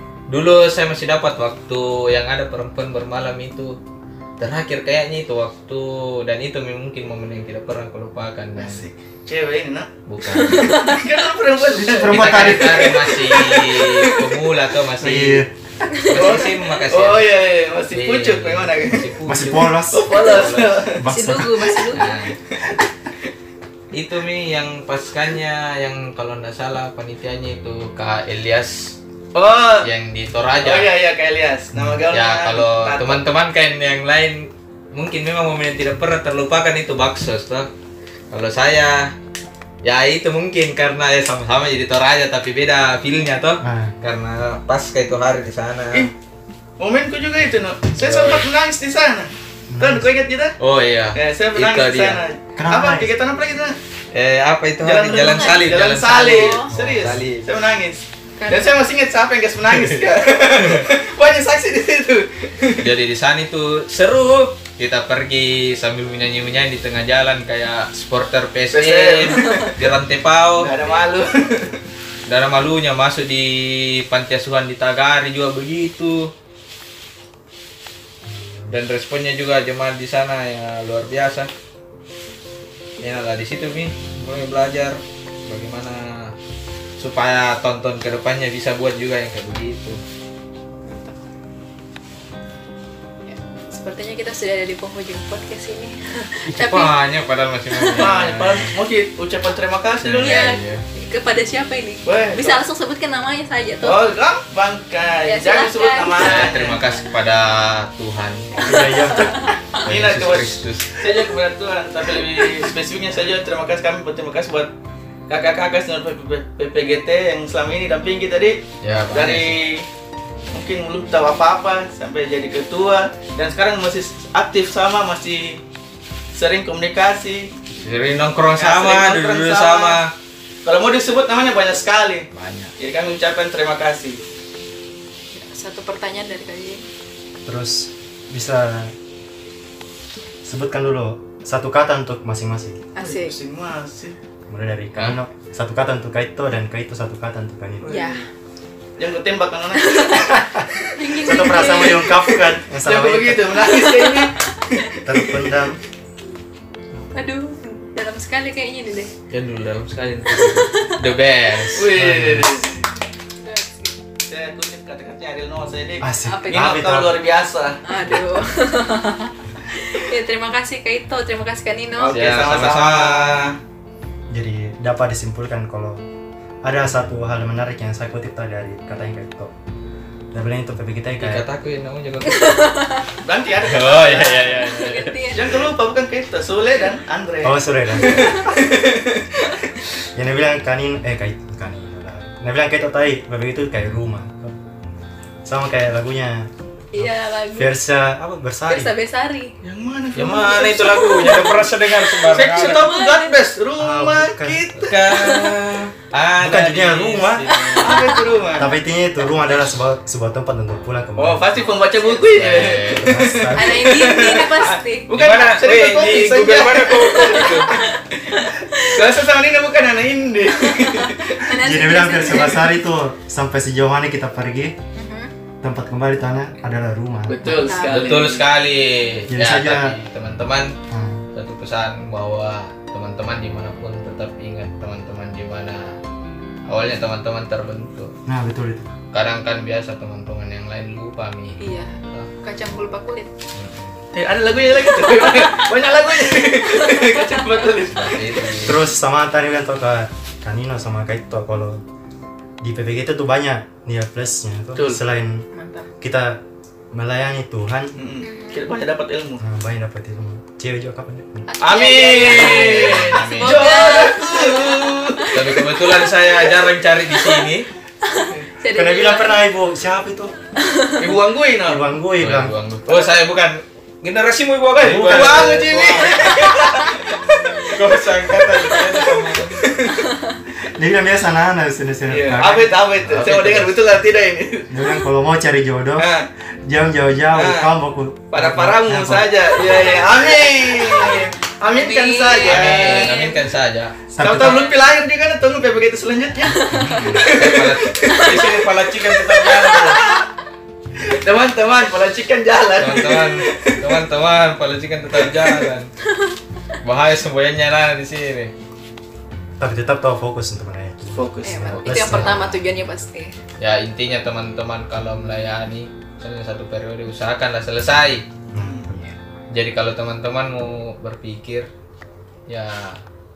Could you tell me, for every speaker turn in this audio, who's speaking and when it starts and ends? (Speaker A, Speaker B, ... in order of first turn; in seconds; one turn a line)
Speaker A: 0.3-3.8
Speaker A: 4.4-8.8
Speaker B: 8.6-9.9
Speaker A: 10.1-10.9
Speaker C: 10.2-11.1
Speaker B: 10.5-14.3
Speaker D: 11.8-12.9
Speaker A: 11.9-15.4
Speaker D: 15.0-15.5
Speaker C: 15.9-16.3
Speaker A: 16.0-17.3
Speaker B: 16.1-19.1
Speaker A: 17.9-20.9
Speaker D: 19.2-20.1
Speaker B: 19.9-21.1
Speaker D: 21.0-21.8
Speaker C: 21.1-22.1
Speaker B: 21.8-22.8
Speaker A: 21.9-22.4
Speaker A: 23.9-29.0
Speaker B: 29.3-29.9
Speaker A: 29.8-30.9
Speaker B: 30.6-33.2
Speaker D: 31.7-32.0
Speaker A: 32.1-37.7
Speaker A: 38.3-39.1
Speaker A: 39.8-46.1
Speaker D: 43.6-43.9
Speaker B: 46.8-50.6
Speaker A: 48.0-48.5
Speaker D: 49.7-50.1
Speaker A: 50.6-52.2
Speaker B: 51.1-53.8
Speaker D: 52.5-53.1
Speaker A: 54.1-57.5
Speaker B: 54.8-62.9
Speaker C: 55.2-55.6
Speaker C: 56.2-56.7
Speaker D: 56.7-57.2
Speaker C: 58.4-58.7
Speaker A: 59.7-60.1
Speaker A: 62.8-70.7
Speaker B: 68.7-69.9
Speaker B: 70.6-71.8
Speaker A: 72.3-76.3
Speaker D: 78.2-78.7
Speaker A: 78.7-81.5
Speaker A: 83.0-86.3
Speaker A: 87.0-90.0
Speaker C: 90.8-91.2
Speaker C: 93.2-96.9
Speaker A: 96.5-98.7
Speaker C: 97.7-98.1
Speaker B: 97.9-100.5
Speaker A: 100.0-100.8
Speaker C: 100.2-104.0
Speaker B: 102.0-102.6
Speaker B: 103.8-106.8
Speaker C: 105.2-106.6
Speaker A: 106.1-108.9
Speaker D: 108.6-109.5
Speaker C: 108.6-109.8
Speaker A: 109.8-111.0
Speaker B: 109.8-114.7
Speaker B: 115.3-119.9
Speaker A: 118.8-119.6
Speaker B: 120.5-125.6
Speaker B: 126.3-127.5
Speaker A: 127.8-130.1
Speaker B: 128.5-130.0
Speaker B: 130.6-134.2
Speaker A: 132.3-132.7
Speaker C: 135.3-136.8
Speaker D: 137.4-138.9
Speaker D: 140.4-142.8
Speaker C: 142.9-143.3
Speaker B: 143.0-144.2
Speaker D: 144.5-148.0
Speaker B: 147.8-148.2
Speaker C: 147.8-148.3
Speaker B: 149.0-152.1
Speaker C: 149.8-150.4
Speaker C: 150.9-152.4
Speaker D: 151.2-153.6
Speaker B: 152.8-155.4
Speaker C: 153.6-154.8
Speaker D: 155.0-155.8
Speaker C: 157.1-159.1
Speaker A: 159.3-162.1
Speaker C: 160.3-161.1
Speaker D: 161.6-162.7
Speaker B: 161.7-162.8
Speaker C: 163.4-163.9
Speaker B: 164.3-167.8
Speaker D: 166.0-167.2
Speaker C: 166.2-166.8
Speaker C: 167.8-172.2
Speaker B: 172.0-173.6
Speaker A: 172.1-173.5
Speaker D: 174.3-176.0
Speaker D: 176.6-179.5
Speaker D: 180.3-181.4
Speaker A: 181.2-182.8
Speaker C: 182.3-183.1
Speaker B: 183.2-184.7
Speaker A: 183.6-185.4
Speaker C: 184.6-185.6
Speaker B: 185.3-189.4
Speaker D: 187.4-188.5
Speaker C: 188.0-188.5
Speaker D: 190.1-194.6
Speaker D: 195.4-198.9
Speaker C: 196.9-197.7
Speaker C: 198.7-199.5
Speaker B: 199.6-201.7
Speaker A: 200.1-202.9
Speaker C: 200.7-201.7
Speaker B: 202.3-205.5
Speaker C: 202.4-203.3
Speaker D: 203.8-204.6
Speaker A: 204.8-208.2
Speaker D: 206.4-207.6
Speaker C: 207.7-208.5
Speaker B: 207.7-208.7
Speaker D: 208.6-211.7
Speaker B: 211.2-221.6
Speaker C: 211.9-212.2
Speaker A: 212.2-213.4
Speaker D: 213.0-214.2
Speaker C: 213.5-215.1
Speaker A: 215.1-217.8
Speaker C: 217.1-219.0
Speaker C: 220.7-222.8
Speaker D: 221.6-224.8
Speaker C: 224.9-225.3
Speaker D: 225.6-227.6
Speaker B: 227.3-228.4
Speaker C: 227.4-228.3
Speaker A: 227.5-230.8
Speaker D: 229.3-229.9
Speaker D: 230.9-231.2
Speaker A: 231.3-236.0
Speaker A: 236.7-238.1
Speaker D: 238.2-238.9
Speaker A: 239.1-242.3
Speaker C: 241.6-243.3
Speaker A: 243.5-244.0
Speaker B: 244.1-248.2
Speaker C: 245.0-245.6
Speaker C: 246.8-247.6
Speaker A: 247.9-248.8
Speaker D: 248.6-251.8
Speaker D: 252.6-255.4
Speaker B: 254.8-255.0
Speaker C: 255.5-255.9
Speaker D: 256.0-256.4
Speaker D: 256.9-257.9
Speaker B: 257.9-259.4
Speaker C: 258.2-258.6
Speaker D: 259.4-261.5
Speaker C: 261.5-265.7
Speaker B: 261.6-265.8
Speaker A: 261.9-264.1
Speaker A: 265.3-267.7
Speaker C: 268.0-269.4
Speaker D: 268.6-270.4
Speaker C: 270.6-271.0
Speaker B: 271.0-271.8
Speaker D: 271.6-272.6
Speaker A: 272.2-276.9
Speaker B: 272.9-273.1
Speaker B: 274.7-280.1
Speaker D: 274.8-275.5
Speaker A: 277.6-279.7
Speaker D: 280.7-282.8
Speaker B: 282.1-284.7
Speaker A: 283.0-283.8
Speaker D: 284.7-286.1
Speaker B: 286.0-286.3
Speaker D: 286.6-289.3
Speaker B: 287.4-287.6
Speaker B: 288.3-293.2
Speaker C: 289.6-290.1
Speaker C: 290.8-293.4
Speaker A: 292.4-294.0
Speaker D: 294.1-294.7
Speaker B: 294.2-300.2
Speaker C: 294.4-294.7
Speaker D: 296.6-297.2
Speaker A: 296.7-300.0
Speaker C: 298.1-298.4
Speaker B: 301.0-303.8
Speaker A: 302.8-305.9
Speaker B: 305.2-305.7
Speaker A: 306.8-308.5
Speaker D: 309.6-312.4
Speaker B: 311.1-311.7
Speaker C: 311.4-313.3
Speaker A: 311.7-312.6
Speaker A: 313.6-318.3
Speaker D: 318.5-319.1
Speaker B: 318.6-318.9
Speaker A: 319.5-321.7
Speaker A: 322.5-323.0